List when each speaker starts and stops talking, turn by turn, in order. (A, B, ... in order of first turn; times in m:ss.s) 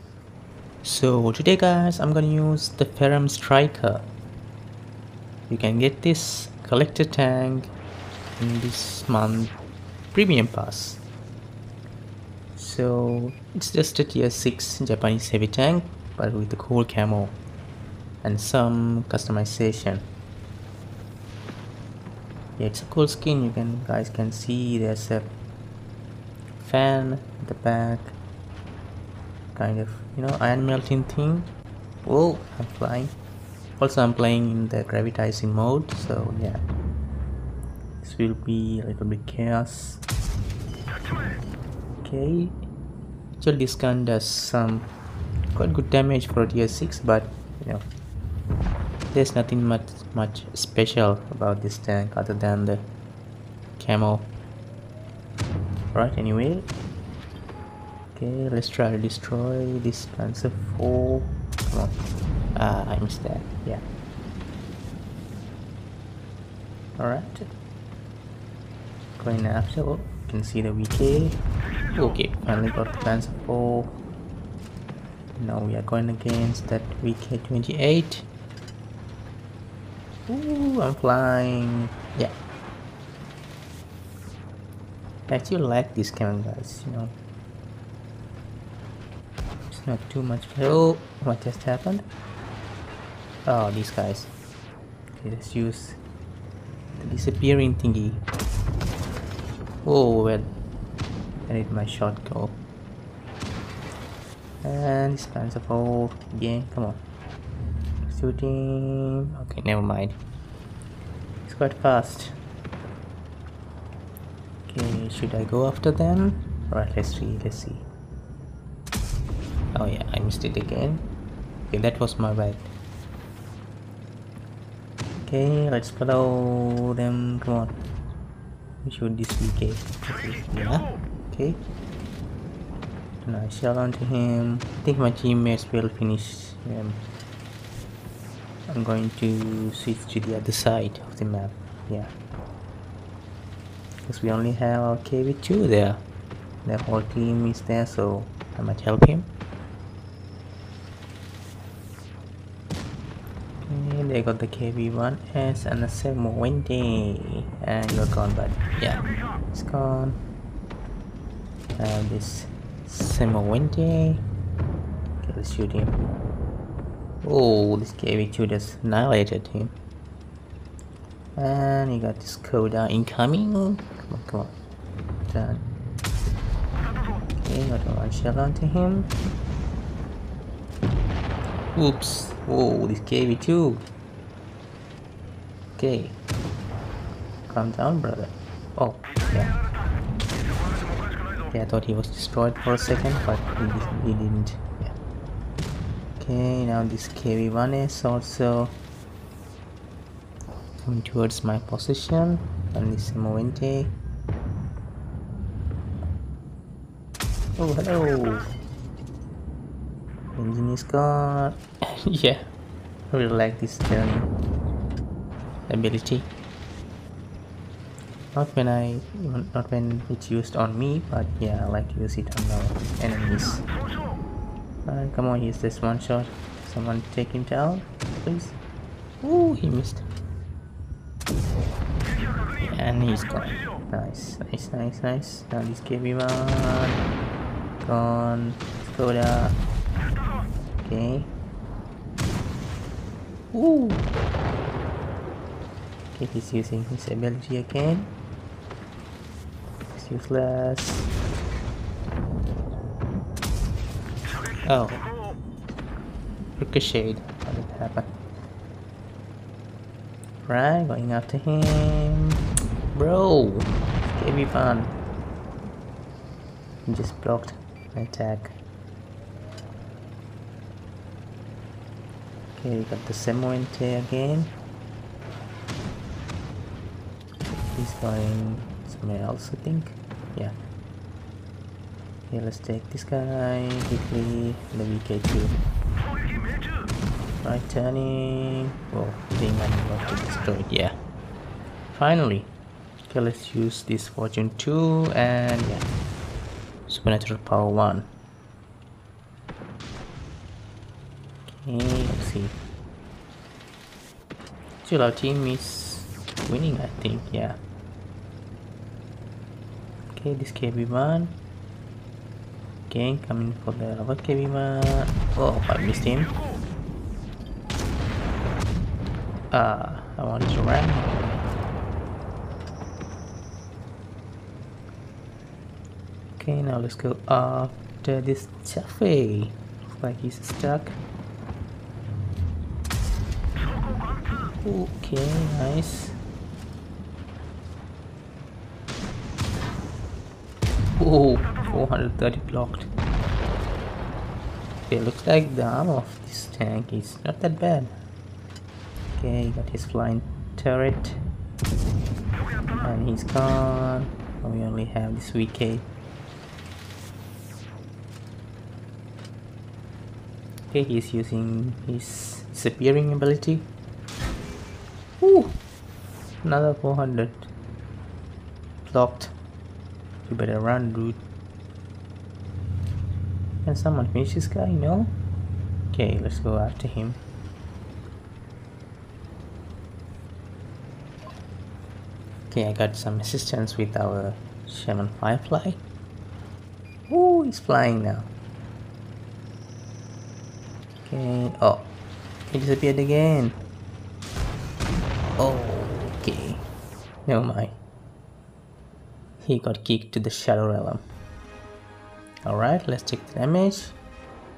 0:00.8-0:04.1 A
0:05.5-0:07.7 A
0:08.4-0:09.5 A
0:10.1-0:11.0 A
0:12.6-0:17.4 A
0:18.2-0:20.0 A
0:22.6-0:25.4 A
0:26.6-0:28.2 A
0:29.6-0:31.5 A
0:32.0-0:33.1 A
0:33.8-0:36.6 A
0:38.0-0:40.0 A
0:42.0-0:42.6 A
0:43.4-0:44.9 A
0:45.5-0:47.8 A
0:49.1-0:52.9 A
0:53.8-0:54.3 A
0:55.9-0:56.7 A
0:58.1-1:02.0 A
1:02.6-1:03.8 A
1:07.0-1:07.5 A
1:09.2-1:11.4 A
1:11.9-1:14.0 A
1:15.4-1:18.3 A
1:20.3-1:22.3 A
1:25.3-1:27.1 A
1:29.7-1:32.1 A
1:33.5-1:34.3 A
1:35.2-1:36.0 A
1:37.0-1:38.2 A
1:39.8-1:40.5 A
1:41.5-1:42.6 A
1:44.6-1:47.0 A
1:48.1-1:50.2 A
1:51.4-1:52.4 A
1:54.7-1:57.9 A
1:59.7-2:01.1 A
2:01.7-2:02.7 A
2:05.2-2:07.8 A
2:08.8-2:11.6 A
2:13.2-2:17.0 A
2:18.7-2:22.1 A
2:24.0-2:26.0 A
2:26.6-2:29.3 A
2:33.6-2:40.2 A
2:41.8-2:44.2 A
2:45.2-2:46.0 A
2:47.2-2:49.8 A
2:51.4-2:54.6 A
2:55.3-2:55.6 A
2:57.4-2:59.1 A
3:01.8-3:03.8 A
3:05.8-3:06.2 A
3:07.5-3:09.5 A
3:11.5-3:15.0 A
3:16.2-3:18.8 A
3:20.8-3:23.9 A
3:27.6-3:28.5 A
3:30.3-3:32.5 A
3:33.1-3:34.3 A
3:35.7-3:36.3 A
3:38.3-3:43.6 A
3:44.8-3:48.6 A
3:49.2-3:50.0 A
3:52.7-3:57.0 A
3:57.8-3:59.6 A
4:00.8-4:01.3 A
4:03.5-4:04.0 A
4:06.1-4:08.1 A
4:09.9-4:11.1 A
4:14.7-4:15.0 A
4:16.6-4:18.1 A
4:20.4-4:22.4 A
4:22.9-4:24.9 A
4:26.9-4:28.6 A
4:32.6-4:34.6 A
4:37.5-4:40.5 A
4:42.3-4:45.6 A
4:47.4-4:50.9 A
4:51.9-4:52.5 A
4:53.1-4:55.9 A
4:56.9-4:58.1 A
5:01.5-5:02.6 A
5:04.8-5:07.6 A
5:10.1-5:11.4 A
5:12.9-5:16.3 A
5:19.5-5:21.4 A
5:26.4-5:31.0 A
5:34.5-5:36.2 A
5:41.0-5:42.9 A
5:44.9-5:47.9 A
5:49.2-5:51.2 A
5:52.7-5:55.9 A
6:00.7-6:03.7 A
6:05.2-6:05.6 A
6:06.4-6:07.5 A
6:08.8-6:09.3 A
6:10.2-6:11.2 A
6:13.6-6:15.2 A
6:15.9-6:17.2 A
6:22.5-6:25.8 A
6:27.1-6:28.3 A
6:31.0-6:31.9 A
6:32.5-6:33.6 A
6:35.4-6:36.6 A
6:37.2-6:37.8 A
6:39.4-6:41.0 A
6:42.4-6:44.0 A